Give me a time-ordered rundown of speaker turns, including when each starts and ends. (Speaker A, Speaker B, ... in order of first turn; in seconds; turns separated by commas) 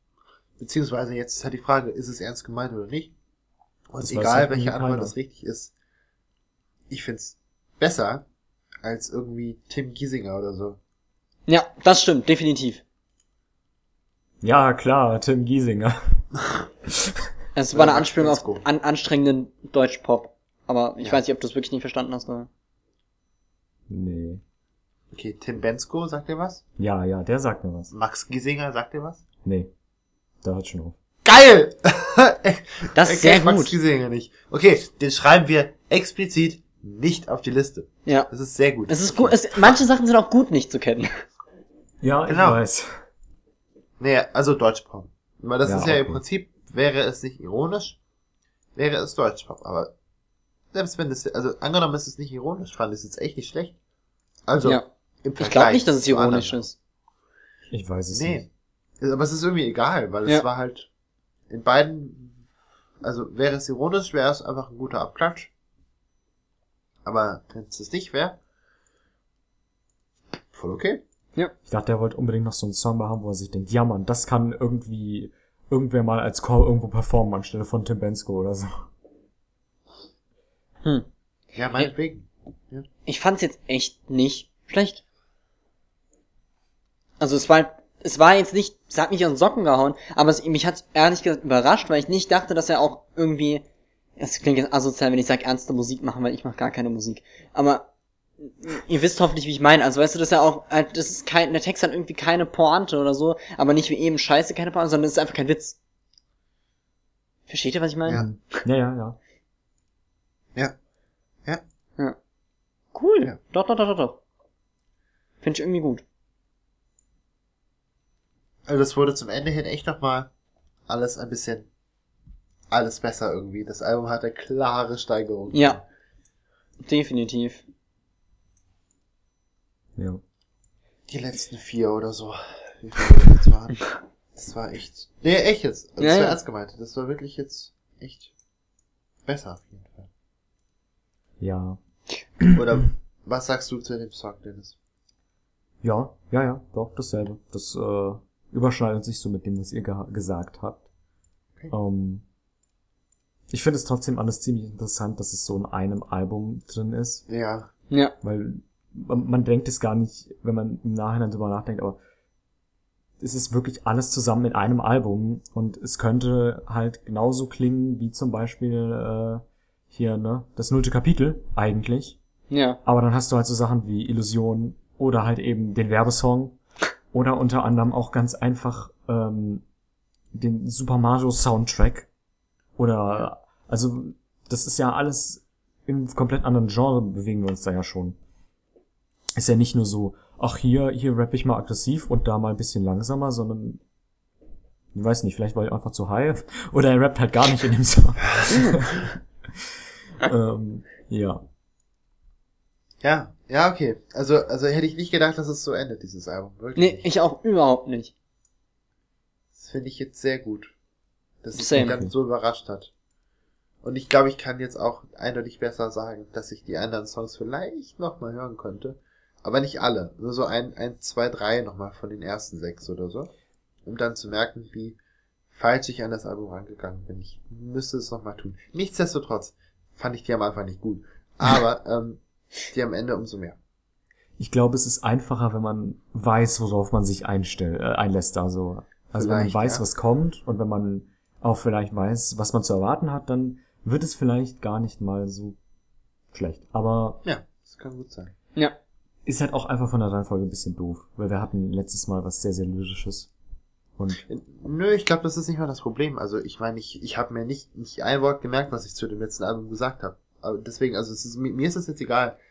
Speaker A: 0.6-3.1, Speaker A: 3.9-5.7, Speaker B: 4.0-5.1, Speaker A: 6.9-8.2, Speaker A: 8.8-10.8, Speaker C: 11.5-12.8, Speaker B: 14.4-16.2, Speaker C: 17.6-22.5, Speaker A: 17.7-18.6, Speaker B: 23.9-24.4, Speaker A: 25.1-26.6, Speaker B: 26.8-27.9, Speaker A: 27.9-29.2, Speaker B: 29.4-29.7, Speaker B: 30.4-31.0, Speaker A: 31.2-39.8, Speaker C: 33.0-33.8, Speaker C: 38.9-41.2, Speaker B: 42.0-43.0, Speaker A: 42.3-42.6, Speaker A: 44.0-48.0, Speaker B: 45.6-46.2, Speaker A: 48.8-49.9, Speaker A: 50.7-53.8, Speaker A: 54.5-56.6, Speaker C: 55.4-56.8, Speaker B: 57.7-58.5, Speaker A: 58.1-58.5, Speaker A: 59.0-60.9, Speaker A: 61.5-62.4, Speaker A: 63.0-65.5, Speaker A: 67.0-68.4, Speaker A: 70.5-71.0, Speaker B: 71.7-78.9, Speaker A: 81.5-82.9, Speaker C: 83.1-85.0, Speaker C: 87.2-93.6, Speaker C: 94.2-97.8, Speaker C: 98.4-105.8, Speaker C: 107.5-108.2, Speaker B: 108.1-109.2, Speaker C: 112.9-114.2, Speaker C: 115.4-116.0, Speaker A: 118.7-120.3, Speaker A: 120.9-121.7, Speaker A: 122.7-125.8, Speaker C: 125.5-125.8, Speaker C: 126.8-127.6, Speaker A: 131.1-133.8, Speaker A: 134.3-138.3, Speaker C: 136.0-136.4, Speaker A: 139.3-140.1, Speaker B: 141.4-141.8, Speaker A: 142.5-144.8, Speaker B: 145.8-150.8, Speaker B: 151.7-152.2, Speaker B: 153.5-157.2, Speaker A: 157.3-157.7, Speaker B: 158.2-162.0, Speaker B: 163.2-172.2, Speaker C: 172.5-172.8, Speaker B: 172.8-176.6, Speaker B: 177.1-179.6, Speaker B: 180.3-182.1, Speaker B: 182.8-188.2, Speaker B: 189.4-193.8, Speaker B: 194.9-199.1, Speaker B: 200.2-201.4, Speaker A: 203.0-207.1, Speaker C: 206.8-208.1, Speaker A: 209.6-210.7, Speaker A: 211.4-212.9, Speaker C: 211.6-211.9, Speaker B: 211.7-212.1, Speaker A: 213.8-223.3, Speaker A: 223.9-225.0, Speaker A: 225.6-233.6, Speaker B: 234.4-245.6, Speaker A: 239.2-239.9, Speaker B: 246.3-247.2, Speaker A: 247.2-248.3, Speaker B: 249.2-253.3, Speaker B: 254.0-254.2, Speaker A: 254.3-262.4